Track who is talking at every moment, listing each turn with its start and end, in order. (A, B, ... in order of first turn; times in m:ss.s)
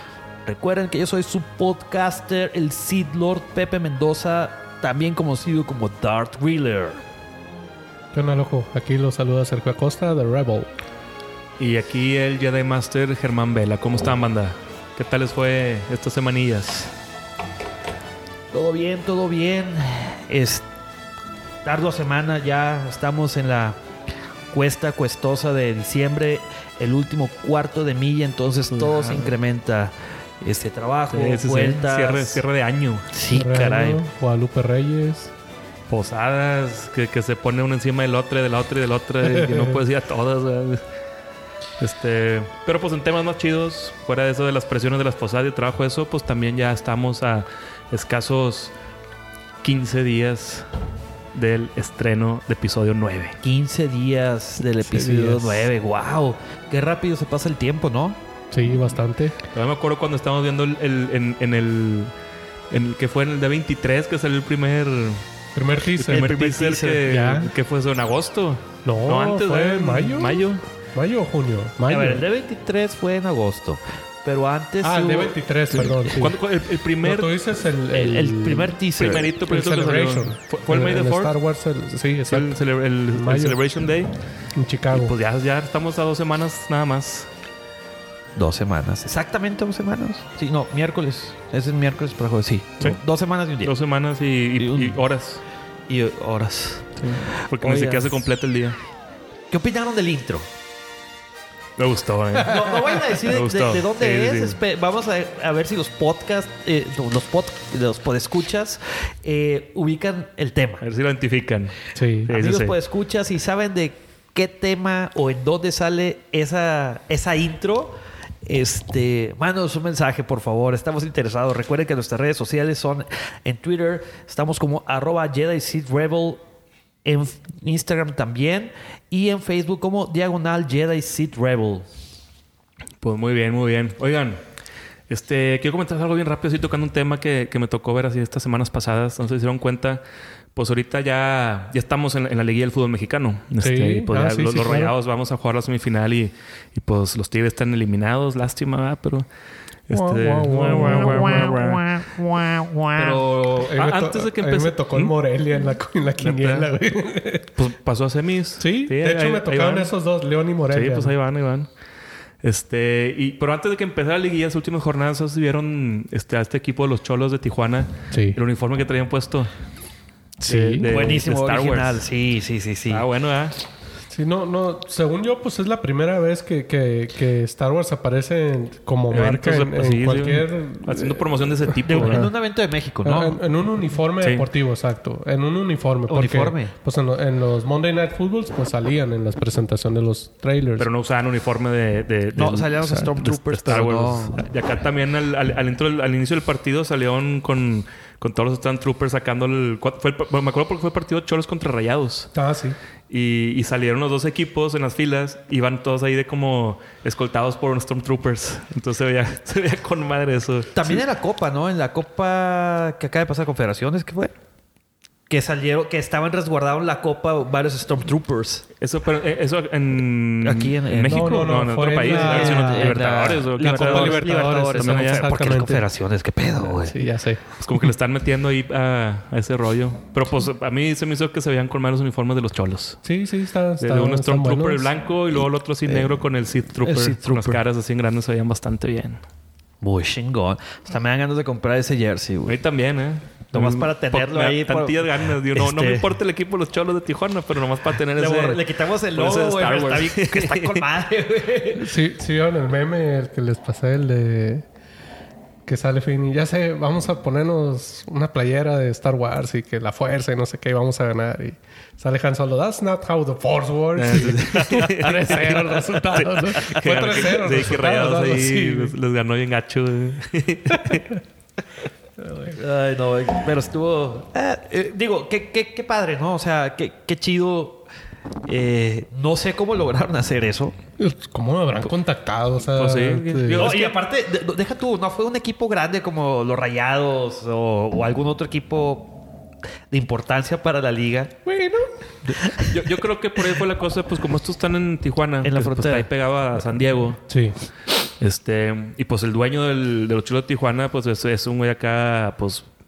0:00.5-0:07.0 A
0:08.1-0:10.7 B
0:11.6-0:16.9 C
0:18.5-0:20.7 A
0:21.6-0:23.8 A
0:24.5-0:32.4 A
0:28.7-0:29.3 C
0:31.1-0:33.1 C
0:33.1-0:34.0 A
0:33.3-0:35.3 B
0:35.9-0:40.8 C
0:39.2-0:39.8 B
0:41.8-0:48.7 C
0:49.6-0:50.7 C
0:51.3-0:53.4 C
0:53.4-0:58.2 A
0:54.8-0:55.7 B
0:58.5-0:59.4 B
0:59.5-1:02.1 C
1:02.7-1:05.2 C
1:05.6-1:06.3 B
1:06.0-1:10.6 C
1:06.1-1:07.0 A
1:07.0-1:07.5 B
1:08.8-1:12.2 B
1:11.9-1:15.3 A
1:14.8-1:16.4 B
1:15.7-1:17.3 C
1:17.0-1:18.8 B
1:17.9-1:19.3 A
1:19.0-1:21.3 C
1:19.5-1:22.6 B
1:22.2-1:24.2 C
1:23.1-1:23.9 B
1:24.6-1:25.1 B
1:24.9-1:27.3 C
1:28.4-1:33.7 A
1:33.6-1:35.4 C
1:34.6-1:35.0 A
1:35.9-1:37.0 A
1:37.0-1:38.8 C
1:37.6-1:38.2 A
1:39.5-1:40.5 A
1:41.8-1:44.6 C
1:42.4-1:50.8 A
1:50.8-1:51.8 C
1:52.0-1:52.3 B
1:52.3-2:06.4 A
1:52.3-1:52.7 C
2:07.0-2:11.9 A
2:13.0-2:14.4 C
2:15.1-2:20.0 C
2:20.6-2:29.3 C
2:23.6-2:24.9 B
2:29.9-2:31.8 C
2:29.9-2:31.8 B
2:30.8-2:33.2 A
2:32.9-2:35.1 C
2:33.6-2:37.5 B
2:36.2-2:36.7 C
2:37.6-2:39.9 C
2:38.6-2:41.2 B
2:40.7-2:41.7 C
2:42.4-2:49.5 C
2:48.1-2:48.4 B
2:50.4-2:52.1 C
2:50.4-2:50.9 B
2:50.9-2:53.1 A
2:52.9-2:53.6 C
2:54.1-3:02.3 B
2:59.1-3:02.3 C
3:01.8-3:03.4 A
3:03.0-3:10.9 B
3:04.2-3:04.5 C
3:06.1-3:06.7 A
3:10.8-3:22.3 C
3:12.4-3:14.4 A
3:22.3-3:22.8 B
3:23.1-3:31.0 C
3:30.7-3:34.3 A
3:35.3-3:38.6 A
3:38.8-3:45.3 C
3:40.4-3:47.0 A
3:41.1-3:45.8 B
3:46.6-3:47.4 B
3:47.6-3:53.0 C
3:53.0-3:54.9 B
3:53.8-3:59.2 C
3:56.8-3:57.6 A
3:59.8-4:02.6 A
4:02.5-4:10.8 C
4:03.5-4:06.0 A
4:08.2-4:11.9 A
4:11.8-4:14.7 B
4:15.6-4:29.0 B
4:24.0-4:31.2 C
4:24.5-4:24.9 A
4:32.2-4:32.6 B
4:32.5-4:37.8 A
4:38.4-4:40.8 A
4:41.0-4:43.7 B
4:42.6-4:44.0 C
4:43.5-4:49.3 A
4:49.9-4:51.4 A
4:51.4-4:51.9 B
4:52.3-4:57.2 C
4:52.3-4:52.8 A
4:55.4-4:56.1 A
4:57.3-4:57.6 B
4:58.2-5:02.7 C